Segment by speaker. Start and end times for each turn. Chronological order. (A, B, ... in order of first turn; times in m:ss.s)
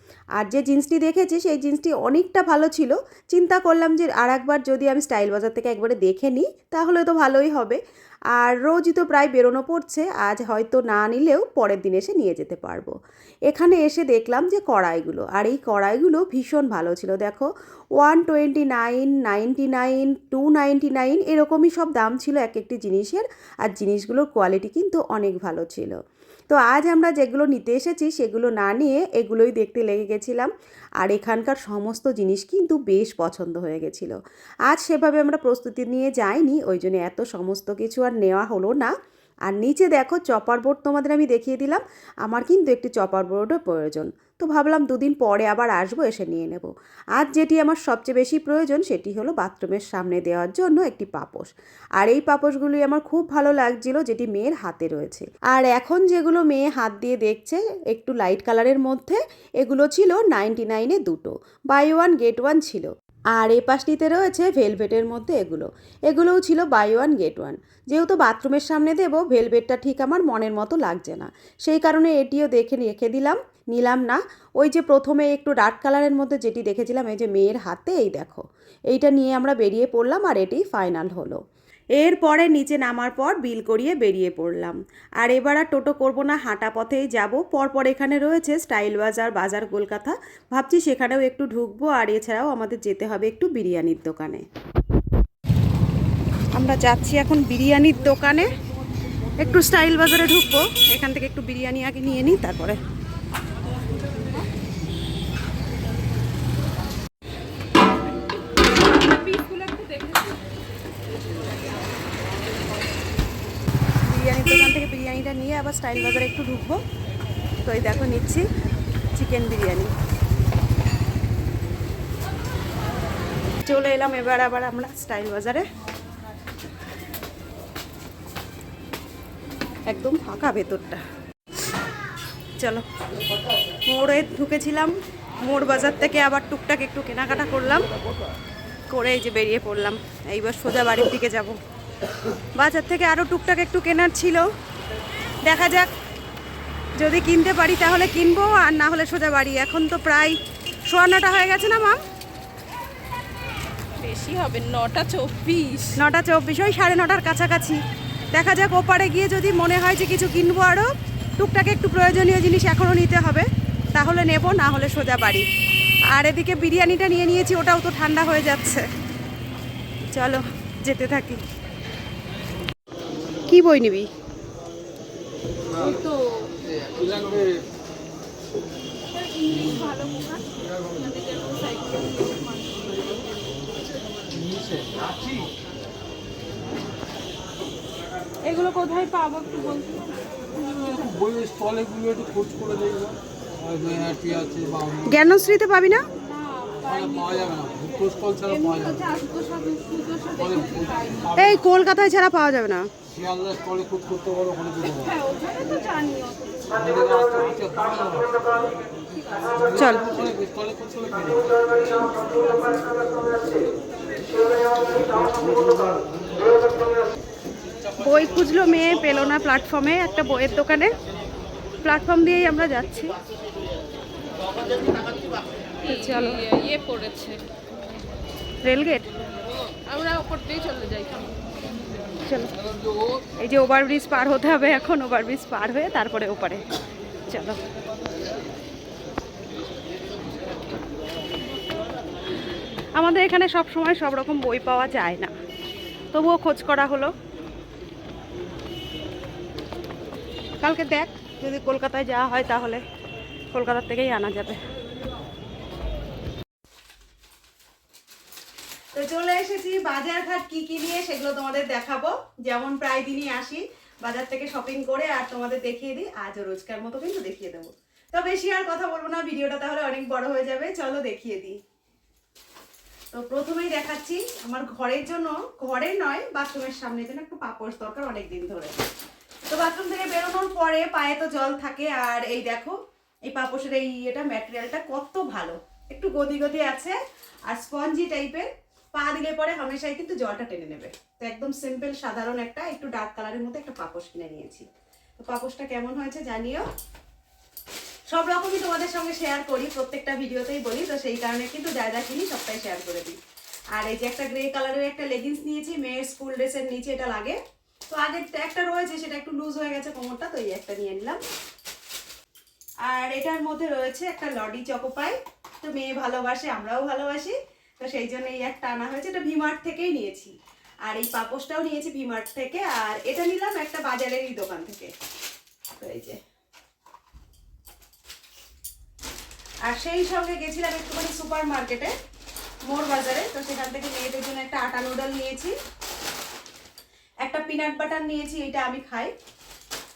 0:00.4-0:07.8 A
0:08.3-0:12.9 A
0:13.5-0:26.0 A
0:26.5-0:38.9 A
0:39.4-1:21.4 A
1:22.0-1:34.4 A
1:36.5-1:38.5 A
1:39.4-1:42.8 A
1:48.9-1:50.4 B
1:54.0-1:56.8 A
1:57.6-1:58.4 A
1:59.1-1:59.9 A
2:03.6-2:05.6 A
2:09.9-2:11.0 A
2:13.9-2:17.9 A
2:18.9-2:21.6 A
2:22.6-2:24.4 A
2:25.4-2:25.9 A
2:27.0-2:32.0 A
2:34.0-2:36.0 B
2:36.0-2:37.8 A
2:38.3-2:45.4 A
2:46.1-2:48.8 A
2:50.1-2:51.4 A
2:53.5-2:54.1 A
2:55.8-2:56.5 B
2:56.8-2:57.5 C
2:59.2-3:03.3 B
3:04.4-3:04.9 C
3:08.4-3:10.9 B
3:10.7-3:15.0 C
3:15.0-3:16.0 A
3:16.2-3:21.3 B
3:16.8-3:19.1 C
3:20.6-3:21.0 C
3:21.3-3:22.9 A
3:23.2-3:25.2 C
3:24.9-3:26.8 B
3:26.7-3:28.4 C
3:29.1-3:29.7 B
3:29.7-3:30.3 A
3:30.2-3:32.1 C
3:32.0-3:32.9 B
3:35.2-3:36.0 C
3:38.0-3:40.9 A
3:41.8-3:43.1 A
3:44.8-3:45.1 B
3:45.8-3:47.4 B
3:45.8-3:46.4 A
3:48.6-3:49.0 A
3:49.8-3:51.4 B
3:52.2-3:52.5 A
3:53.4-3:56.6 A
3:57.3-3:57.6 A
4:03.0-4:05.3 A
4:06.1-4:07.1 A
4:10.6-4:12.8 A
4:13.5-4:14.6 A
4:18.9-4:31.6 A
4:33.1-4:38.8 A
4:39.5-4:47.0 A
4:47.5-4:54.7 A
4:55.2-4:56.6 A
4:58.1-5:03.2 A
5:03.7-5:07.4 A
5:07.9-5:11.2 A
5:12.8-5:20.3 A
5:20.8-5:24.9 A
5:25.8-5:26.2 A
5:29.6-5:31.9 A
5:32.7-5:35.5 A
5:37.2-5:39.1 A